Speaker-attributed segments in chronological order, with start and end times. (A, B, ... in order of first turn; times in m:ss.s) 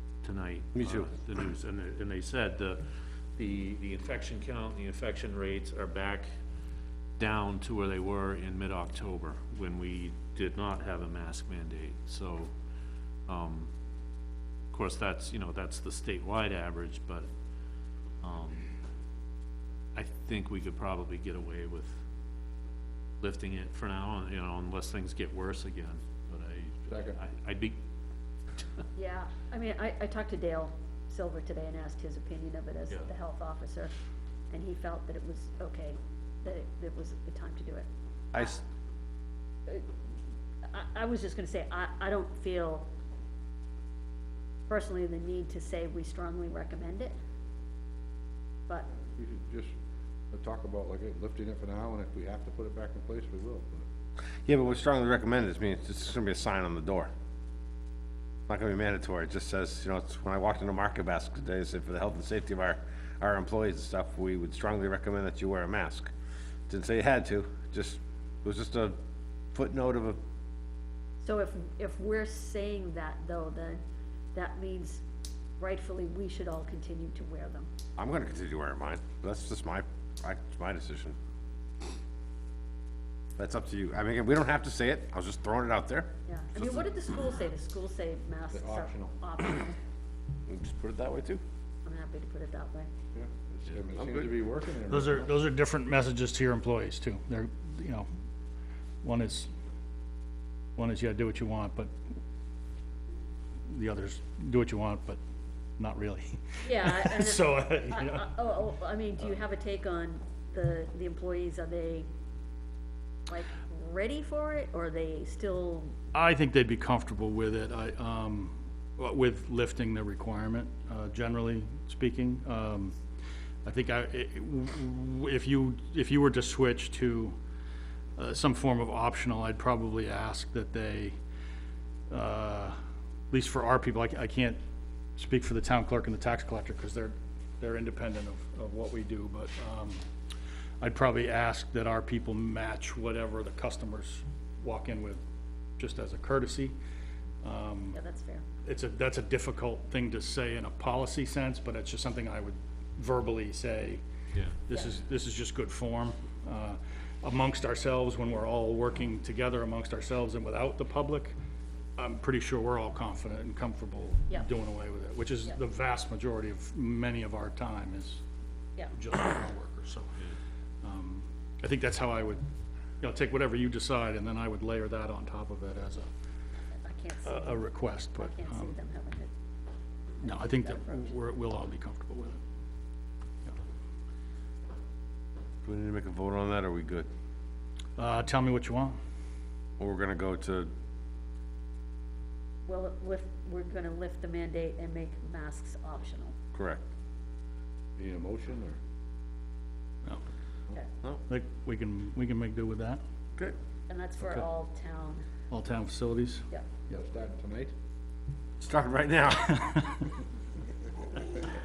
0:00.2-0:02.8 A
0:00.7-0:01.1 B
0:03.3-0:06.3 A
0:07.2-0:12.5 A
0:13.3-0:13.7 A
0:14.7-0:17.3 A
0:18.2-0:18.7 A
0:19.9-0:21.9 A
0:23.2-0:27.8 A
0:26.9-0:27.2 C
0:28.9-0:33.9 D
0:34.5-0:37.9 D
0:38.3-0:38.6 B
0:40.7-0:42.9 D
0:44.7-0:47.2 D
0:49.1-0:49.7 C
0:50.3-0:53.9 C
0:54.4-0:57.1 B
0:58.5-1:06.1 B
1:06.7-1:08.9 B
1:09.5-1:10.2 B
1:11.2-1:13.8 D
1:14.3-1:15.0 D
1:15.6-1:17.7 D
1:18.0-1:21.2 B
1:23.4-1:26.7 B
1:26.2-1:29.8 D
1:28.5-1:29.2 C
1:30.5-1:31.4 B
1:31.8-1:32.9 D
1:33.1-1:35.4 C
1:34.0-1:34.3 B
1:34.9-1:38.1 E
1:39.0-1:39.5 E
1:40.8-1:41.9 E
1:43.7-1:45.2 E
1:45.8-1:48.3 E
1:46.6-1:52.1 D
1:53.3-1:55.9 D
1:56.1-2:02.9 E
2:03.6-2:07.4 E
2:08.2-2:11.2 E
2:12.1-2:12.8 E
2:13.3-2:14.6 E
2:15.2-2:20.0 E
2:20.8-2:25.2 E
2:25.8-2:26.8 E
2:27.4-2:28.0 E
2:27.9-2:28.4 D
2:28.6-2:34.0 E
2:34.7-2:41.3 E
2:42.0-2:48.2 E
2:48.9-2:50.2 E
2:50.8-2:52.4 E
2:53.0-2:56.1 E
2:56.7-2:57.6 D
2:57.2-2:58.7 E
2:58.2-2:59.3 D
3:00.2-3:01.1 D
3:00.2-3:02.4 E
3:05.6-3:07.1 B
3:08.0-3:09.0 E
3:09.8-3:10.7 B
3:12.6-3:16.3 D
3:16.5-3:16.8 B
3:18.0-3:18.8 C
3:21.3-3:23.0 E
3:23.9-3:25.2 D
3:25.5-3:27.0 E
3:26.9-3:27.7 C
3:28.6-3:29.6 B